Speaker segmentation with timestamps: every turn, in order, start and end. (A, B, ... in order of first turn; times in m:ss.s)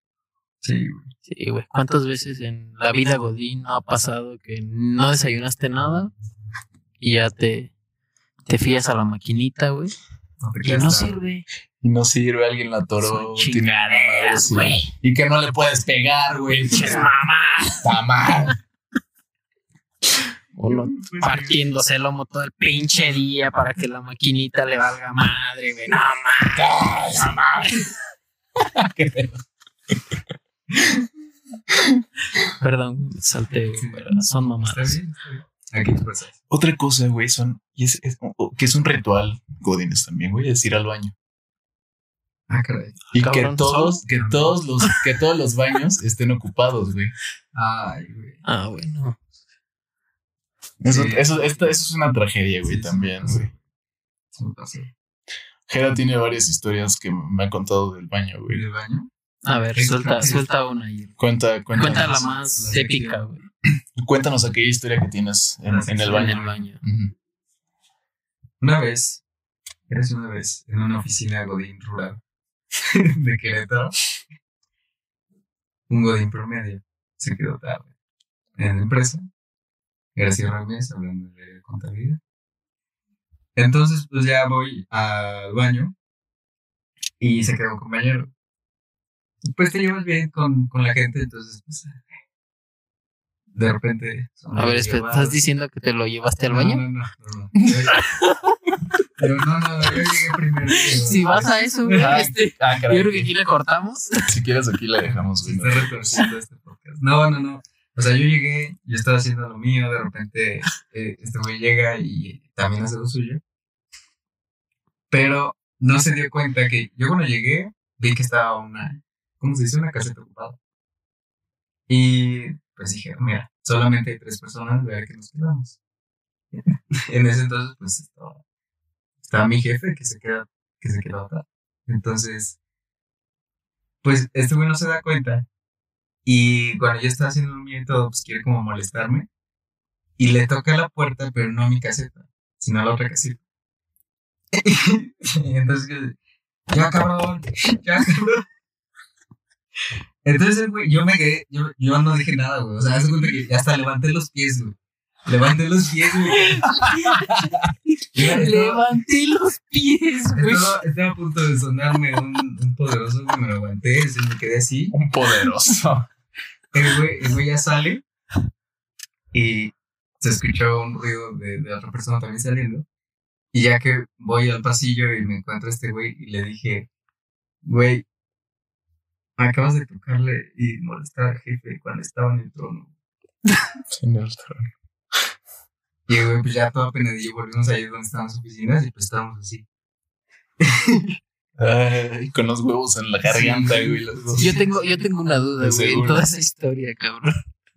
0:00.6-0:01.1 A
0:01.3-0:06.1 B
0:07.0-0:07.7 B
0:08.5-0:09.9 B
0:10.4-0:11.2 A
0:10.6-0:11.4 B
0:11.8-0:17.1 C
0:13.0-0:14.9 B
0:16.6-0:17.9 B
0:17.8-0:18.6 C
0:20.5-0:26.6 B
0:21.0-0:21.6 A
0:26.5-0:27.9 C
0:28.6-0:29.4 C
0:32.6-0:35.0 B
0:33.8-0:36.3 A
0:36.5-0:41.1 C
0:42.5-0:43.0 A
0:43.1-0:47.1 C
0:43.2-0:44.0 B
0:44.1-0:44.6 A
0:47.5-0:48.4 A
0:48.4-0:49.2 B
0:50.8-0:53.5 C
0:50.9-0:51.7 A
0:52.6-0:53.6 A
0:54.4-0:54.9 A
0:55.7-0:58.6 C
0:58.5-0:59.1 A
0:59.4-1:01.1 B
0:59.7-1:00.4 A
1:01.2-1:02.1 C
1:01.7-1:03.4 B
1:01.8-1:03.2 A
1:04.0-1:07.1 C
1:05.7-1:06.6 A
1:05.9-1:06.8 B
1:08.6-1:09.2 A
1:09.9-1:12.2 A
1:12.7-1:14.0 A
1:15.9-1:17.9 A
1:18.6-1:19.2 A
1:20.2-1:22.2 A
1:23.6-1:25.9 A
1:27.2-1:28.3 A
1:29.5-1:32.0 A
1:33.5-1:35.4 A
1:34.5-1:36.8 B
1:36.4-1:38.0 A
1:37.9-1:38.4 B
1:39.2-1:42.2 A
1:40.8-1:44.3 B
1:41.9-1:43.3 C
1:44.3-1:46.2 C
1:45.4-1:53.4 A
1:55.1-2:00.6 A
2:01.9-2:05.8 A
2:06.5-2:08.4 A
2:09.2-2:12.6 A
2:14.0-2:15.5 A
2:16.2-2:19.3 A
2:20.2-2:23.4 A
2:24.5-2:26.2 A
2:26.7-2:28.4 A
2:30.2-2:36.7 A
2:36.4-2:37.5 B
2:36.7-2:37.5 C
2:38.1-2:38.8 A
2:38.2-2:40.8 B
2:40.3-2:45.0 A
2:44.9-2:46.1 C
2:46.7-2:48.0 A
2:49.3-2:52.8 A
2:53.5-2:56.9 A
2:57.6-2:58.0 A
2:59.4-3:02.9 A
3:03.9-3:04.7 C
3:06.1-3:09.6 A
3:10.6-3:11.1 A
3:11.6-3:14.6 C
3:13.2-3:15.0 A
3:14.4-3:17.4 B
3:15.6-3:16.2 C